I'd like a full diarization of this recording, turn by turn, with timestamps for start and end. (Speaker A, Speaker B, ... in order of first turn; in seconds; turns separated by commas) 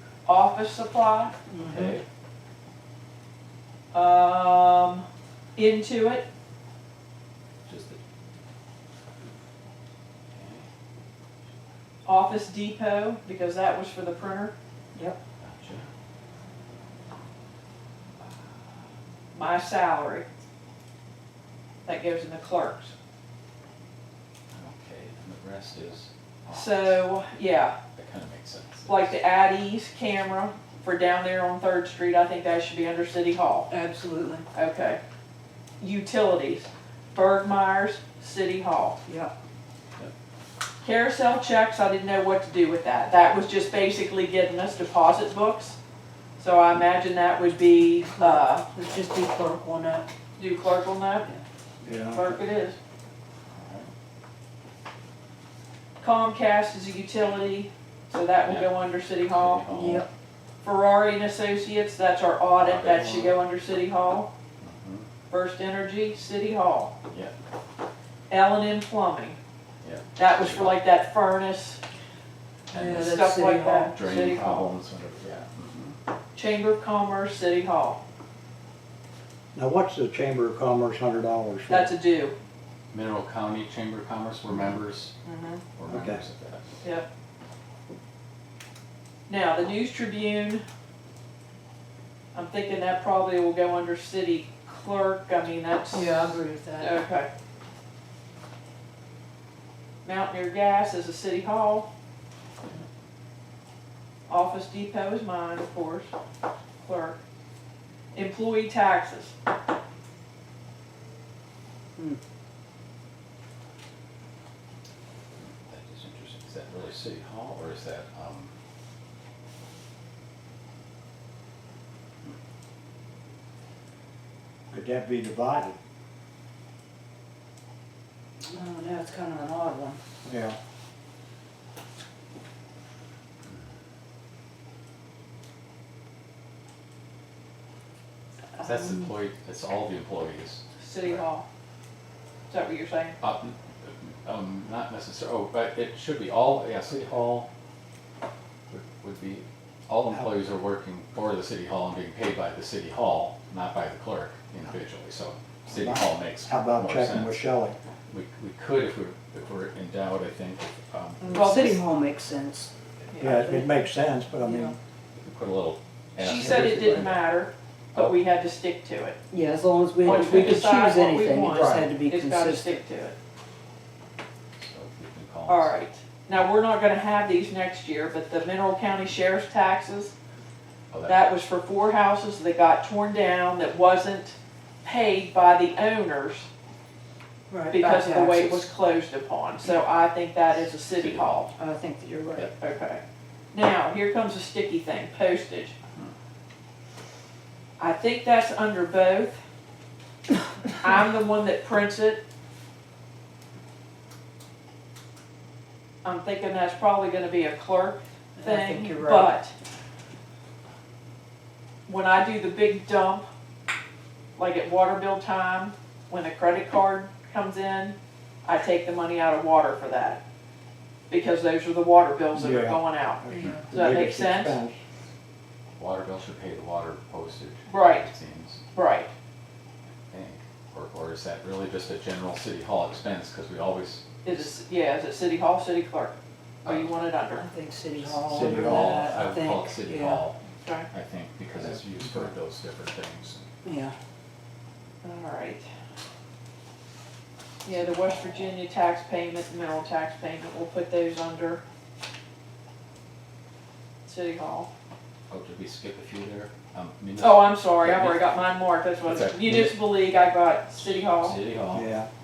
Speaker A: 0.2-1.4, Speaker B: 1.5-1.9, Speaker C: 1.6-2.0, Speaker A: 3.9-5.0, Speaker A: 5.5-6.2, Speaker C: 7.6-8.0, Speaker C: 10.3-10.7, Speaker A: 12.1-14.5, Speaker C: 15.4-15.9, Speaker A: 19.3-20.2, Speaker A: 21.8-22.9, Speaker C: 24.5-27.1, Speaker A: 26.5-27.8, Speaker C: 27.9-29.2, Speaker A: 28.9-33.7, Speaker B: 33.7-34.4, Speaker A: 34.5-35.0, Speaker A: 35.8-39.0, Speaker B: 39.0-39.3, Speaker A: 40.8-45.8, Speaker A: 46.4-48.6, Speaker B: 48.1-50.1, Speaker A: 50.4-51.3, Speaker D: 51.8-52.4, Speaker A: 52.0-52.8, Speaker C: 53.5-53.9, Speaker A: 56.0-59.6, Speaker C: 58.4-60.0, Speaker B: 59.7-60.0, Speaker A: 60.6-64.3, Speaker C: 62.6-63.4, Speaker C: 64.6-65.1, Speaker A: 65.3-66.9, Speaker C: 67.1-67.3, Speaker A: 68.3-69.4, Speaker C: 69.8-70.8, Speaker A: 70.2-71.8, Speaker C: 72.7-73.2, Speaker B: 72.7-73.9, Speaker A: 73.0-74.7, Speaker C: 73.9-75.9, Speaker A: 76.3-78.0, Speaker D: 79.5-81.9, Speaker A: 81.7-82.3, Speaker C: 82.9-85.1, Speaker A: 85.2-85.6, Speaker C: 85.7-86.7, Speaker D: 85.9-86.2, Speaker A: 86.8-87.1, Speaker A: 89.3-90.6, Speaker A: 92.3-97.3, Speaker B: 95.9-97.0, Speaker A: 100.0-101.9, Speaker A: 104.3-106.1, Speaker A: 106.8-107.2, Speaker A: 108.1-109.3, Speaker C: 115.4-118.5, Speaker D: 124.7-125.8, Speaker B: 128.5-130.0, Speaker D: 130.2-130.6, Speaker C: 138.6-141.2, Speaker B: 138.7-139.1, Speaker A: 140.8-141.4, Speaker A: 142.5-143.2, Speaker C: 143.2-147.5, Speaker C: 148.7-157.4, Speaker D: 155.7-157.8, Speaker C: 158.1-161.5, Speaker B: 161.2-162.7, Speaker A: 161.3-161.8, Speaker A: 163.1-163.5, Speaker D: 163.2-164.7, Speaker B: 163.2-163.7, Speaker B: 164.4-164.7, Speaker C: 165.1-167.2, Speaker A: 166.2-169.2, Speaker B: 169.3-172.8, Speaker C: 170.0-170.7, Speaker A: 170.0-173.2, Speaker D: 171.5-171.9, Speaker C: 174.6-175.7, Speaker A: 175.5-180.1, Speaker C: 180.9-181.2, Speaker A: 181.1-186.5, Speaker B: 187.5-188.7, Speaker A: 187.7-191.5, Speaker C: 190.9-191.4, Speaker B: 191.6-192.5, Speaker A: 192.6-193.0, Speaker A: 193.5-195.8, Speaker A: 197.8-199.4, Speaker A: 200.7-202.2, Speaker A: 206.0-209.5, Speaker B: 208.4-209.3, Speaker A: 211.9-213.2, Speaker A: 214.3-220.2, Speaker A: 221.1-224.6, Speaker D: 222.3-224.8, Speaker B: 223.3-223.7, Speaker C: 225.8-228.6, Speaker A: 227.7-228.1, Speaker A: 228.7-229.1, Speaker C: 230.1-234.5, Speaker A: 234.2-237.5, Speaker B: 237.4-240.2, Speaker D: 238.0-239.1, Speaker C: 238.3-240.4, Speaker A: 240.6-240.9, Speaker C: 240.9-243.4, Speaker D: 241.6-242.3, Speaker B: 243.6-243.9, Speaker A: 245.0-245.6, Speaker A: 247.6-251.6, Speaker A: 254.1-254.7, Speaker C: 255.3-258.2, Speaker A: 257.2-261.4, Speaker C: 259.0-259.8, Speaker C: 260.8-261.9, Speaker D: 261.7-262.1